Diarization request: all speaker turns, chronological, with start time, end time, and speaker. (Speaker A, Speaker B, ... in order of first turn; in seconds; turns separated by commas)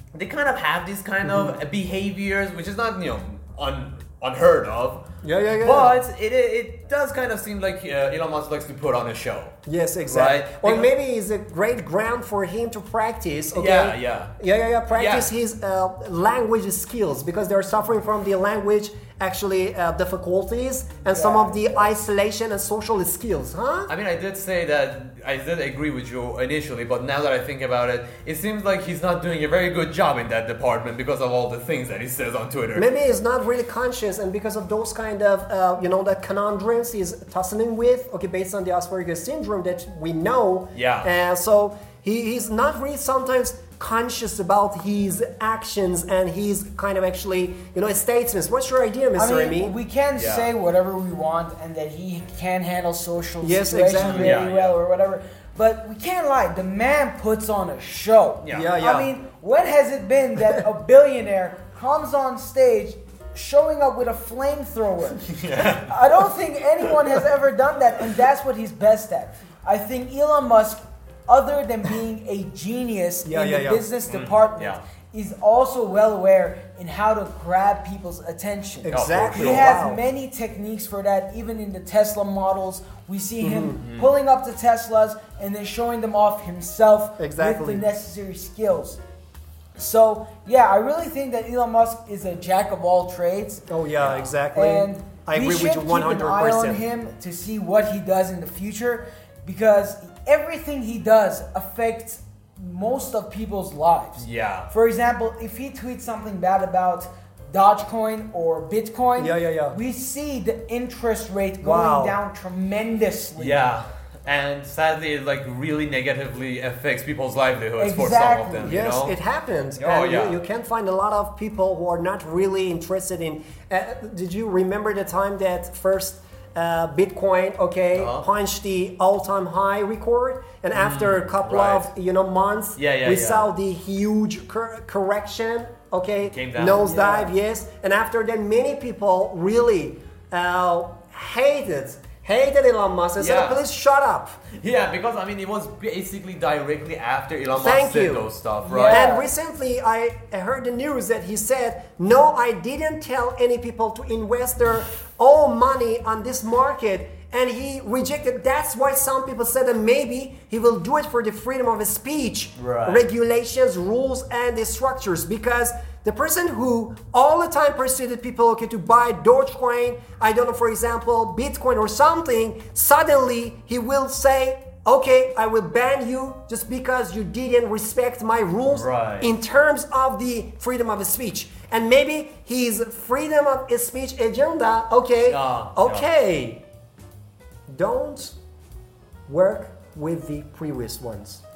Speaker A: 0.1-5.0, Speaker B: 5.2-5.9, Speaker A: 5.6-9.6, Speaker B: 9.7-23.9, Speaker A: 10.1-10.9, Speaker A: 13.5-14.3, Speaker A: 14.9-15.3, Speaker C: 21.0-21.9, Speaker A: 23.9-32.9, Speaker B: 32.8-49.8, Speaker A: 40.7-41.1, Speaker C: 49.2-89.0, Speaker A: 50.1-50.5, Speaker B: 53.4-54.4, Speaker A: 54.0-54.8, Speaker A: 58.4-58.7, Speaker B: 58.5-59.1, Speaker A: 65.2-65.9, Speaker B: 73.2-73.8, Speaker A: 74.1-74.8, Speaker B: 78.8-80.0, Speaker A: 78.9-79.8, Speaker B: 83.4-83.8, Speaker A: 83.8-84.1, Speaker B: 87.2-87.8, Speaker C: 89.8-93.7, Speaker B: 93.7-96.8, Speaker A: 94.0-94.3, Speaker C: 94.5-113.6, Speaker A: 104.2-104.7, Speaker B: 109.2-109.8, Speaker B: 111.6-112.2, Speaker A: 113.4-119.1, Speaker C: 117.8-118.7, Speaker B: 118.6-144.3, Speaker A: 119.8-120.4, Speaker A: 127.9-128.2, Speaker A: 130.7-131.9, Speaker A: 132.8-133.5, Speaker A: 136.3-136.9, Speaker C: 136.8-137.3, Speaker A: 143.2-143.6, Speaker A: 144.5-149.1, Speaker B: 147.6-148.3, Speaker C: 148.6-149.3, Speaker B: 148.9-186.6, Speaker A: 162.6-163.0, Speaker A: 178.7-179.3, Speaker A: 185.2-186.1, Speaker B: 187.7-188.3, Speaker B: 189.3-191.4